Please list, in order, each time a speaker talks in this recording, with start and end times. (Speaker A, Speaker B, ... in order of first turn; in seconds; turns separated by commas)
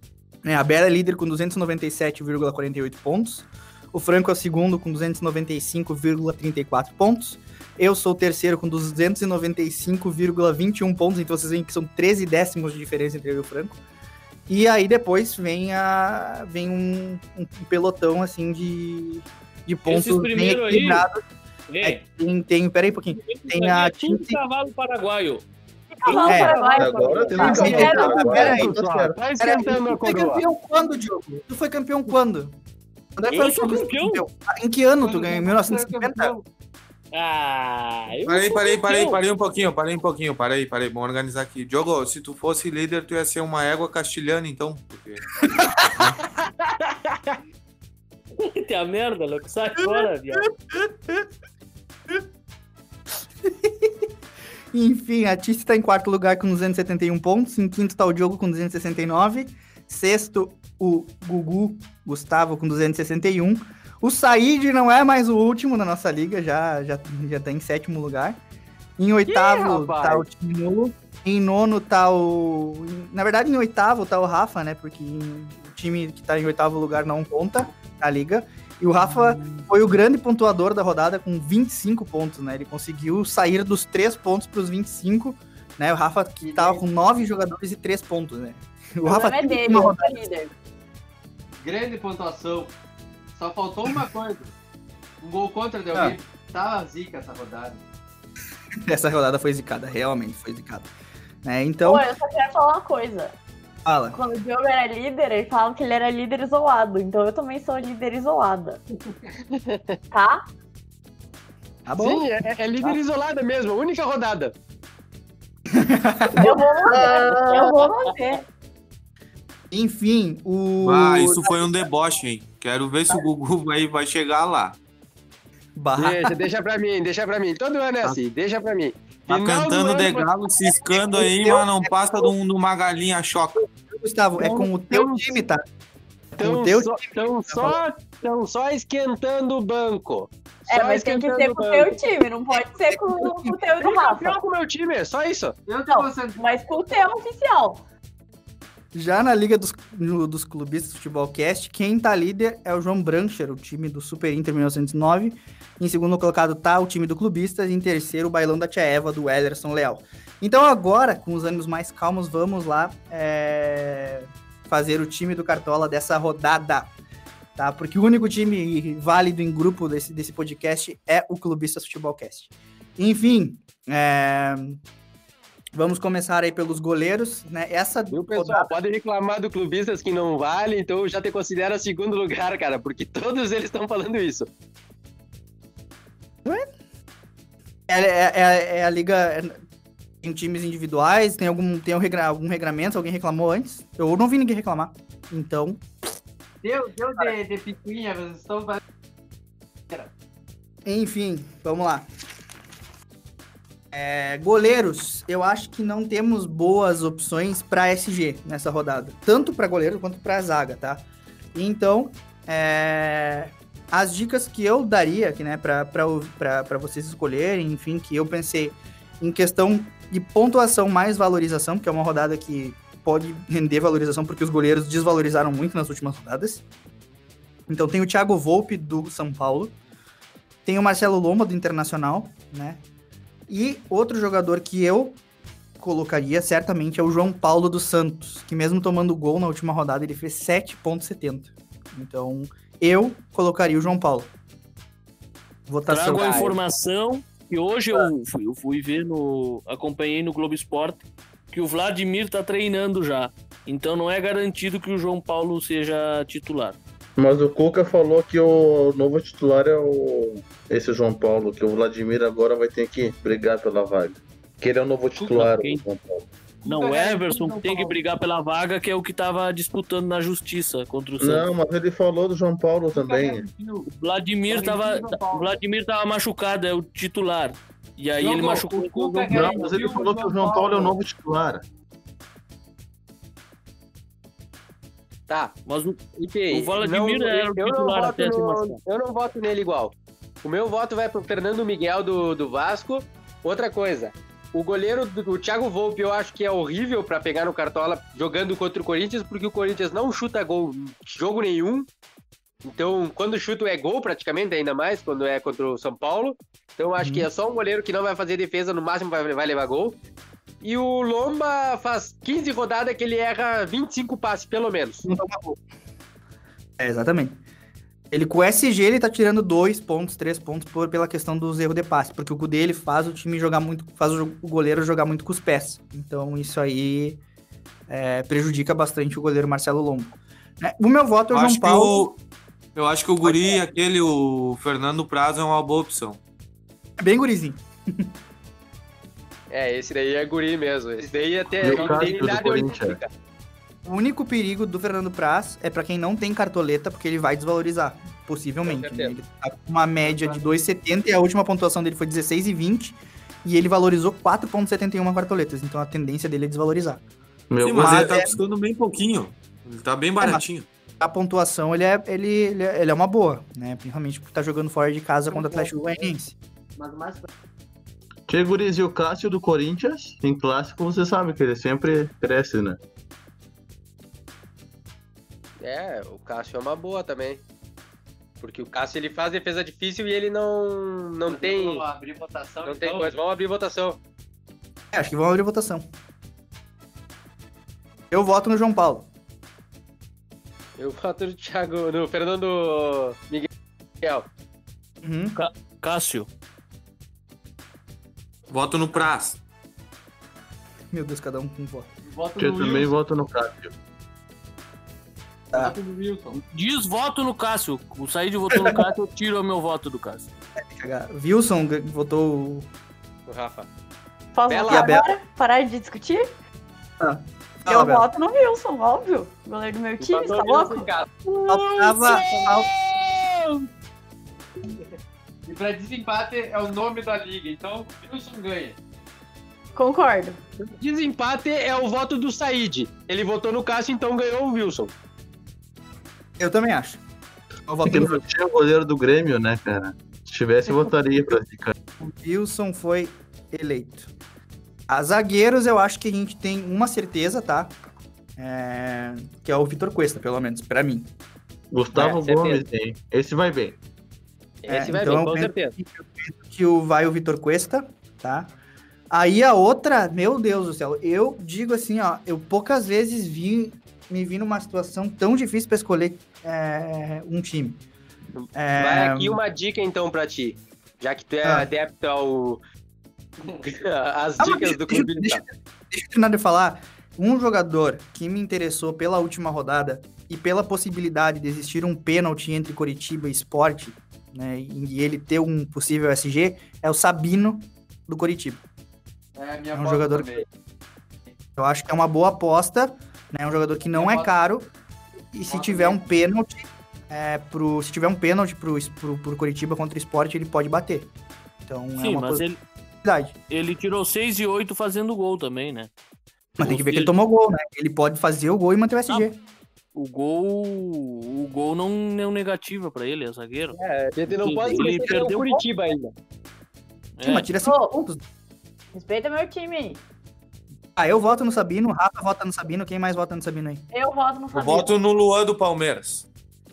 Speaker A: 0.4-13.8, Speaker A: 14.5-21.2, Speaker B: 19.9-21.1, Speaker B: 21.7-22.0, Speaker A: 21.8-24.4, Speaker B: 23.2-25.4, Speaker C: 25.9-28.5, Speaker B: 26.1-28.2, Speaker A: 26.2-26.6, Speaker D: 26.8-29.2, Speaker A: 27.3-32.5, Speaker E: 28.4-30.4, Speaker A: 33.2-36.4, Speaker B: 33.3-34.2, Speaker F: 35.0-36.4, Speaker B: 37.1-39.2, Speaker G: 38.3-45.2, Speaker B: 48.4-50.5, Speaker A: 49.8-51.2, Speaker A: 53.5-53.9, Speaker A: 54.7-68.4, Speaker A: 69.0-90.2, Speaker E: 69.3-70.2, Speaker F: 86.4-86.8, Speaker C: 89.0-90.5, Speaker F: 91.6-92.7, Speaker F: 93.3-94.5, Speaker F: 95.2-97.8, Speaker A: 98.9-100.9, Speaker A: 101.4-102.1, Speaker C: 101.8-103.3, Speaker A: 103.8-104.2, Speaker C: 104.1-108.8, Speaker E: 109.7-110.0, Speaker C: 110.1-110.5, Speaker A: 111.9-112.2, Speaker E: 112.0-114.5, Speaker A: 115.7-117.2, Speaker C: 116.4-118.4, Speaker E: 117.0-117.7, Speaker A: 119.7-121.9, Speaker G: 120.8-124.8, Speaker A: 125.8-126.4, Speaker E: 126.0-130.3, Speaker G: 129.3-133.7, Speaker A: 130.9-132.3, Speaker A: 133.9-135.6, Speaker E: 134.4-135.4, Speaker A: 136.3-137.8, Speaker E: 136.4-142.0, Speaker C: 140.7-144.4, Speaker A: 142.5-143.6, Speaker E: 143.8-145.6, Speaker F: 145.7-146.8, Speaker C: 145.9-147.8, Speaker A: 148.9-166.9, Speaker A: 167.6-174.8, Speaker A: 175.8-178.8, Speaker E: 178.1-184.5, Speaker A: 187.9-189.6, Speaker A: 190.2-195.8, Speaker F: 196.6-198.8, Speaker A: 200.8-202.1, Speaker A: 203.9-226.6, Speaker A: 227.7-229.8, Speaker A: 230.7-232.8, Speaker A: 233.5-235.2, Speaker A: 235.8-244.3, Speaker A: 245.7-246.5, Speaker B: 245.9-251.0, Speaker E: 246.2-246.5, Speaker B: 251.5-256.8, Speaker D: 257.2-266.3, Speaker F: 265.1-265.5, Speaker B: 265.3-265.8, Speaker F: 266.6-268.0, Speaker B: 266.6-271.5, Speaker D: 271.2-273.5, Speaker F: 272.9-273.9, Speaker B: 273.9-279.7, Speaker F: 274.5-275.6, Speaker F: 278.2-281.0, Speaker D: 279.3-281.6, Speaker E: 285.3-285.6, Speaker B: 285.7-286.0, Speaker E: 286.2-301.9, Speaker B: 286.5-288.8, Speaker E: 302.6-310.0, Speaker A: 307.0-307.3, Speaker E: 310.6-315.1, Speaker A: 315.0-315.6, Speaker A: 316.8-317.4, Speaker A: 318.1-327.2, Speaker A: 327.9-332.1, Speaker G: 331.3-332.2, Speaker G: 332.8-336.2, Speaker A: 337.0-338.1, Speaker E: 339.5-343.1, Speaker F: 341.0-342.8, Speaker D: 341.6-343.0, Speaker A: 343.9-357.0, Speaker E: 348.6-349.1, Speaker F: 350.0-350.5, Speaker D: 357.5-358.3, Speaker G: 357.6-360.7, Speaker A: 357.8-358.4, Speaker A: 361.0-366.4, Speaker F: 365.3-365.7, Speaker F: 366.8-367.3, Speaker D: 368.3-372.8, Speaker E: 375.6-377.4, Speaker E: 378.4-381.9, Speaker F: 381.3-383.1, Speaker E: 382.6-384.0, Speaker A: 384.9-385.9, Speaker A: 388.1-389.1, Speaker E: 390.8-393.5, Speaker E: 394.0-394.3, Speaker A: 395.0-395.4, Speaker B: 395.4-396.3, Speaker G: 398.5-399.4, Speaker A: 400.9-401.9, Speaker F: 402.1-402.9, Speaker D: 402.4-403.7, Speaker F: 405.5-406.4, Speaker B: 406.3-410.3, Speaker A: 408.5-408.8, Speaker A: 410.7-412.7, Speaker E: 413.3-413.7, Speaker C: 414.3-416.3, Speaker E: 414.5-414.9, Speaker A: 414.7-415.1, Speaker A: 417.0-418.1, Speaker C: 417.7-420.9, Speaker E: 420.0-421.1, Speaker A: 421.5-422.7, Speaker F: 422.2-422.6, Speaker F: 425.5-428.8, Speaker C: 429.8-430.4, Speaker E: 430.6-434.9, Speaker A: 436.4-437.0, Speaker A: 437.7-438.2, Speaker D: 437.8-441.7, Speaker A: 442.0-444.1, Speaker A: 444.9-447.8, Speaker A: 448.4-451.1, Speaker D: 451.7-453.8, Speaker E: 452.0-452.7, Speaker E: 454.6-455.7, Speaker A: 454.7-458.5, Speaker A: 459.1-467.8, Speaker E: 468.4-472.6, Speaker A: 468.6-469.4, Speaker E: 473.6-475.4, Speaker A: 474.4-488.6, Speaker F: 489.4-490.5, Speaker A: 489.8-490.5, Speaker A: 491.6-494.7, Speaker F: 493.9-494.3, Speaker A: 495.3-501.1, Speaker F: 495.5-496.1, Speaker A: 501.7-502.4, Speaker B: 502.0-502.6, Speaker A: 503.0-503.4, Speaker B: 503.5-505.9, Speaker A: 506.6-509.4, Speaker B: 506.6-507.1, Speaker B: 509.9-513.8, Speaker E: 513.7-516.1, Speaker B: 514.3-515.6, Speaker B: 517.2-517.5, Speaker A: 517.2-518.2, Speaker C: 517.6-518.0, Speaker C: 518.9-520.0, Speaker A: 521.0-523.8, Speaker C: 523.9-524.9, Speaker G: 524.5-526.2